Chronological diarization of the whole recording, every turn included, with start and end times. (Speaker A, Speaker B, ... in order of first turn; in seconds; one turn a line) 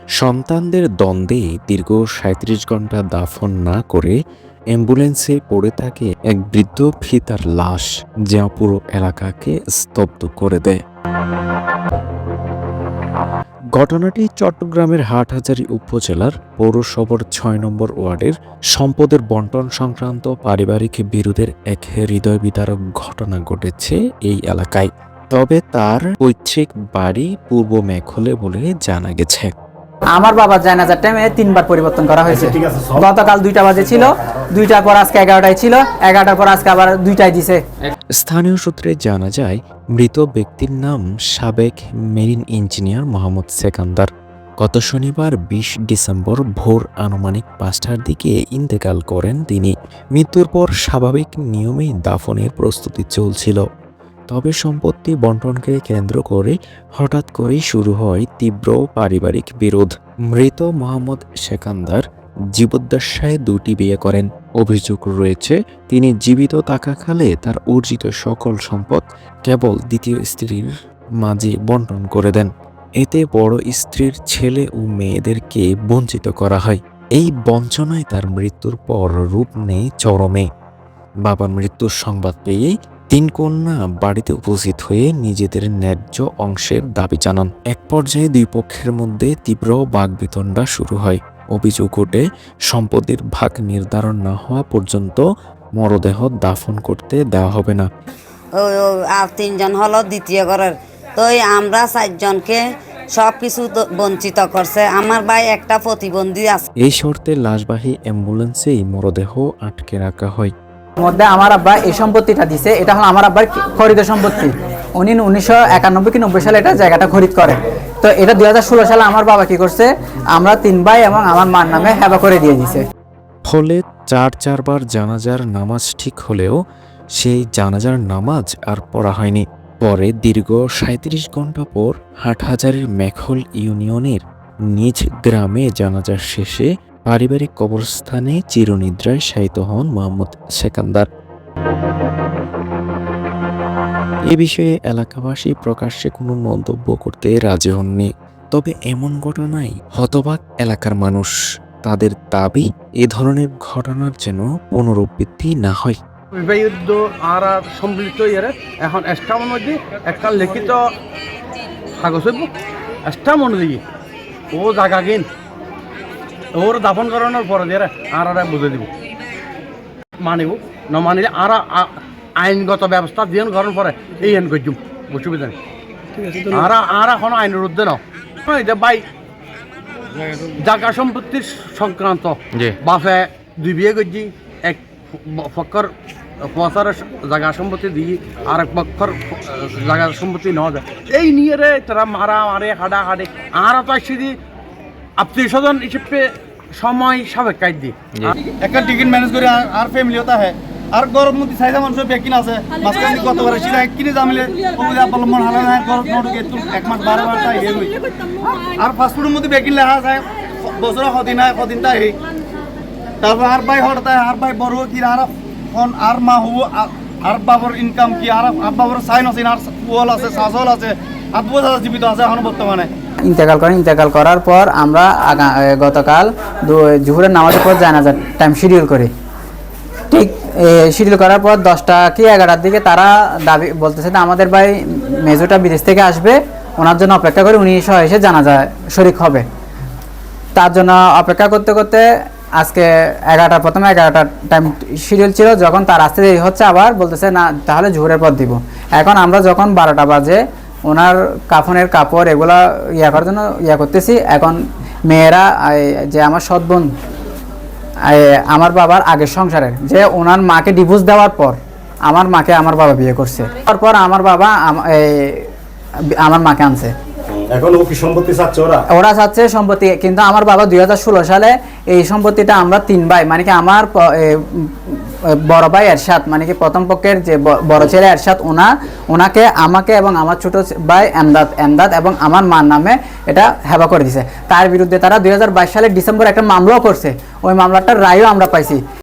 Speaker A: 0.2-4.2
Speaker A: 4.7-10.8
Speaker A: 13.8-29.5
Speaker B: 30.2-37.6
Speaker C: 32.3-33.0
Speaker A: 38.2-44.1
Speaker A: 44.6-53.6
Speaker A: 54.3-62.0
Speaker A: 62.5-70.7
Speaker A: 71.2-80.5
Speaker A: 81.2-95.2
Speaker A: 95.8-97.9
Speaker D: 98.6-102.6
Speaker D: 103.1-106.7
Speaker A: 106.8-110.5
Speaker B: 111.0-122.8
Speaker A: 123.5-126.6
Speaker A: 127.2-134.2
Speaker A: 134.7-141.1
Speaker A: 144.3-156.0
Speaker E: 156.4-160.8
Speaker E: 162.0-162.5
Speaker E: 163.1-163.8
Speaker E: 164.5-165.3
Speaker E: 166.6-168.9
Speaker E: 170.2-175.6
Speaker E: 176.5-179.0
Speaker E: 180.5-185.9
Speaker E: 186.4-194.3
Speaker E: 195.2-198.3
Speaker F: 198.6-212.2
Speaker F: 213.2-222.9
Speaker B: 223.3-229.1
Speaker B: 230.1-239.4
Speaker B: 240.6-242.0
Speaker B: 242.6-256.9
Speaker B: 258.1-265.5
Speaker B: 266.2-266.9
Speaker C: 267.3-268.8
Speaker B: 268.9-275.0
Speaker B: 275.5-288.8